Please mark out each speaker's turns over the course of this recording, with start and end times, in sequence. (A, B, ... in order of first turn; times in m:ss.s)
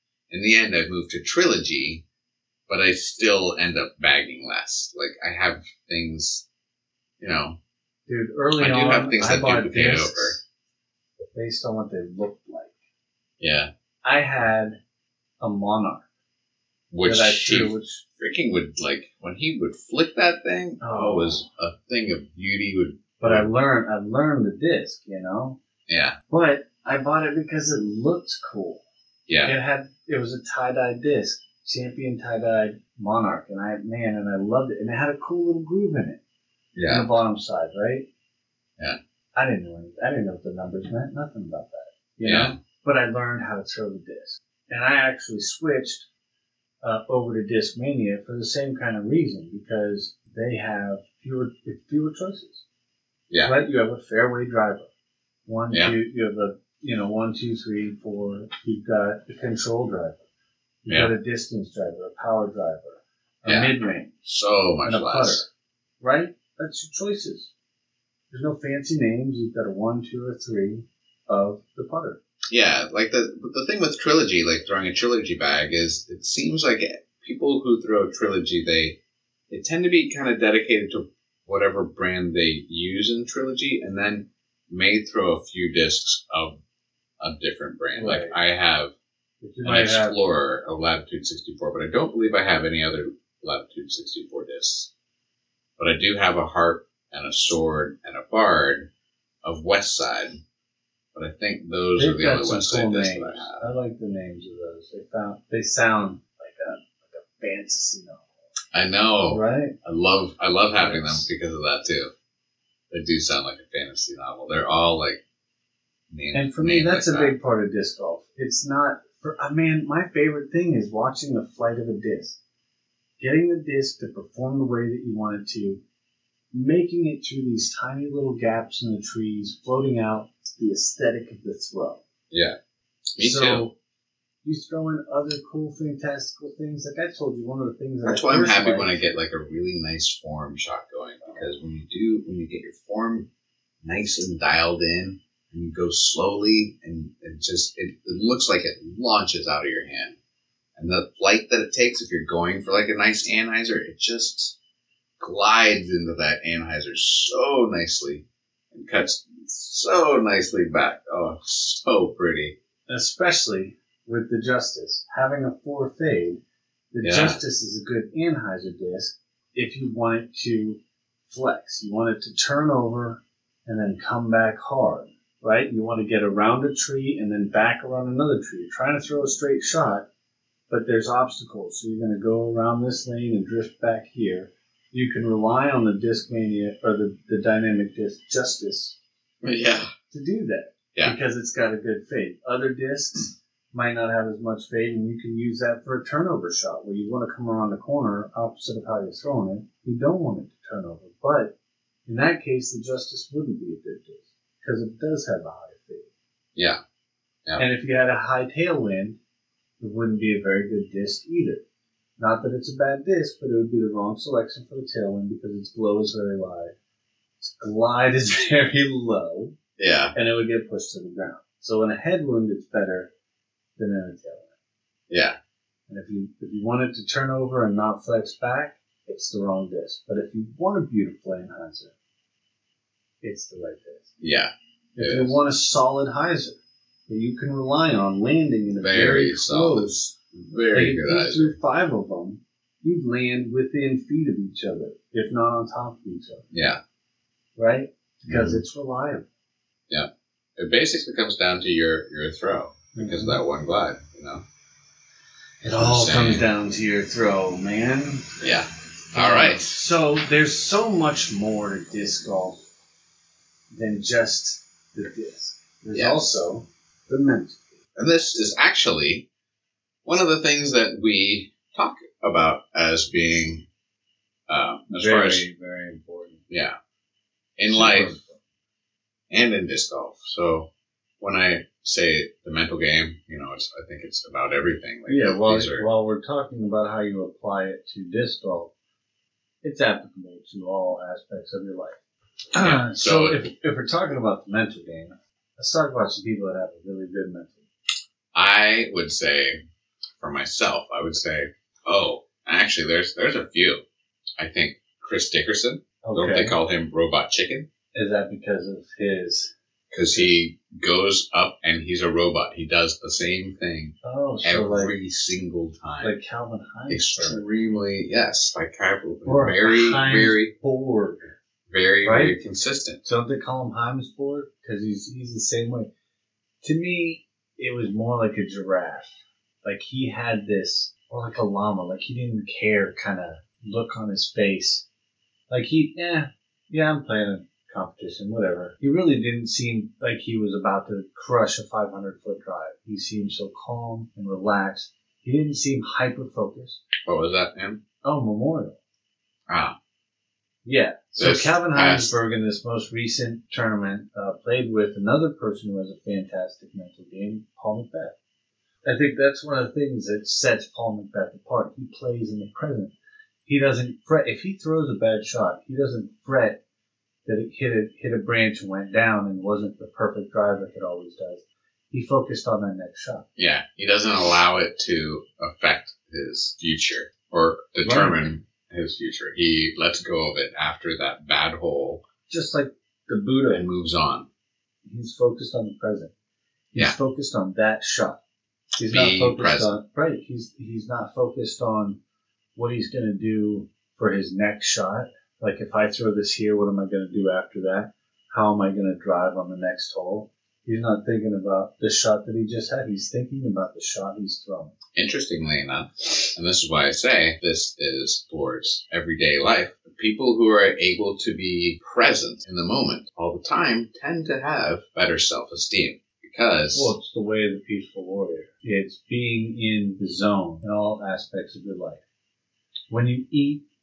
0:00.3-0:02.0 A
0:02.7-0:06.4 A
0:07.2-0:07.6 A
0:08.1-0:10.4 B
0:08.6-0:10.4 A
0:11.2-0:12.8 B
0:13.4-0:13.7 A
0:14.0-0:14.8 B
0:15.4-0:16.1 B
0:16.9-0:23.5 A
0:17.0-0:18.0 B
0:20.8-0:21.4 B
0:23.2-0:25.6 B
0:25.9-0:26.2 A
0:26.3-0:28.8 B
0:29.3-0:29.6 A
0:29.4-0:36.2 B
0:36.7-0:37.1 A
0:36.9-0:38.1 B
0:39.4-0:46.1 B
0:42.2-0:42.6 A
0:46.8-0:52.6 B
0:53.4-0:54.9 B
0:55.5-1:00.2 B
1:00.8-1:04.1 B
1:00.9-1:01.1 A
1:03.4-1:05.4 A
1:04.8-1:05.5 B
1:06.0-1:07.5 B
1:08.3-1:12.2 B
1:12.5-1:19.0 A
1:19.5-1:26.6 A
1:27.2-1:28.9 A
1:28.0-1:28.4 B
1:29.4-1:30.2 B
1:29.6-1:34.9 A
1:35.8-1:38.9 A
1:39.4-1:40.4 A
1:41.1-1:43.6 A
1:42.0-1:48.3 B
1:48.7-1:52.1 A
1:49.2-1:49.8 B
1:50.8-1:51.3 B
1:52.9-1:55.2 A
1:56.1-1:57.4 A
1:56.3-2:02.4 B
2:03.2-2:05.8 B
2:06.5-2:12.0 B
2:12.3-2:12.6 A
2:13.2-2:13.6 A
2:13.2-2:13.8 B
2:14.4-2:19.0 B
2:18.0-2:23.3 A
2:23.8-2:30.2 A
2:30.8-2:34.6 A
2:35.2-2:42.6 A
2:42.9-2:46.4 B
2:46.9-3:00.1 B
2:47.0-2:47.4 A
3:00.7-3:09.0 B
3:09.4-3:09.9 A
3:10.1-3:21.5 B
3:22.1-3:26.1 B
3:27.6-3:29.2 B
3:29.8-3:31.6 B
3:32.2-3:36.7 B
3:37.4-3:39.6 B
3:39.8-3:40.2 A
3:40.1-3:43.1 B
3:43.8-3:44.5 B
3:45.1-3:45.4 A
3:45.9-3:51.9 B
3:53.2-3:54.1 B
3:54.2-3:55.4 A
3:55.0-3:56.6 B
3:57.1-4:00.2 B
3:58.8-4:01.6 A
4:00.7-4:06.4 B
4:06.5-4:06.8 A
4:07.6-4:09.3 B
4:08.3-4:08.6 A
4:09.9-4:14.4 A
4:13.0-4:13.4 B
4:15.6-4:18.5 B
4:15.7-4:16.5 A
4:18.4-4:19.8 A
4:19.1-4:22.6 B
4:23.7-4:27.6 B
4:25.9-4:26.3 A
4:28.0-4:29.3 A
4:30.0-4:33.7 A
4:34.5-4:35.4 A
4:34.9-4:36.4 B
4:36.5-4:36.8 A
4:37.6-4:38.2 A
4:37.7-4:38.4 B
4:39.3-4:40.7 A
4:41.2-4:45.9 A
4:45.1-4:48.7 B
4:49.6-4:52.0 B
4:52.5-4:57.6 B
4:52.6-4:53.4 A
4:58.3-4:59.6 A
5:00.2-5:03.8 A
5:04.4-5:07.7 A
5:06.0-5:06.6 B
5:07.9-5:09.5 B
5:09.9-5:16.1 A
5:14.0-5:14.9 B
5:16.0-5:17.4 B
5:16.9-5:20.5 A
5:19.3-5:21.3 B
5:21.7-5:23.0 A
5:22.0-5:22.4 B
5:23.0-5:25.9 B
5:26.6-5:34.8 B
5:35.5-5:46.8 B
5:47.0-5:47.8 A
5:48.0-5:48.8 B
5:49.5-5:49.8 A
5:50.6-5:58.2 B
5:51.2-5:52.1 A
5:58.8-6:02.9 B
6:03.5-6:06.6 B
6:07.2-6:13.3 B
6:13.4-6:22.0 A
6:17.8-6:18.2 B
6:22.3-6:23.7 B
6:23.5-6:24.3 A
6:24.8-6:26.1 B
6:26.7-6:28.2 B
6:28.8-6:32.0 B
6:28.9-6:29.7 A
6:32.6-6:44.7 B
6:45.0-6:56.9 A
6:56.7-7:02.0 B
7:02.9-7:03.6 B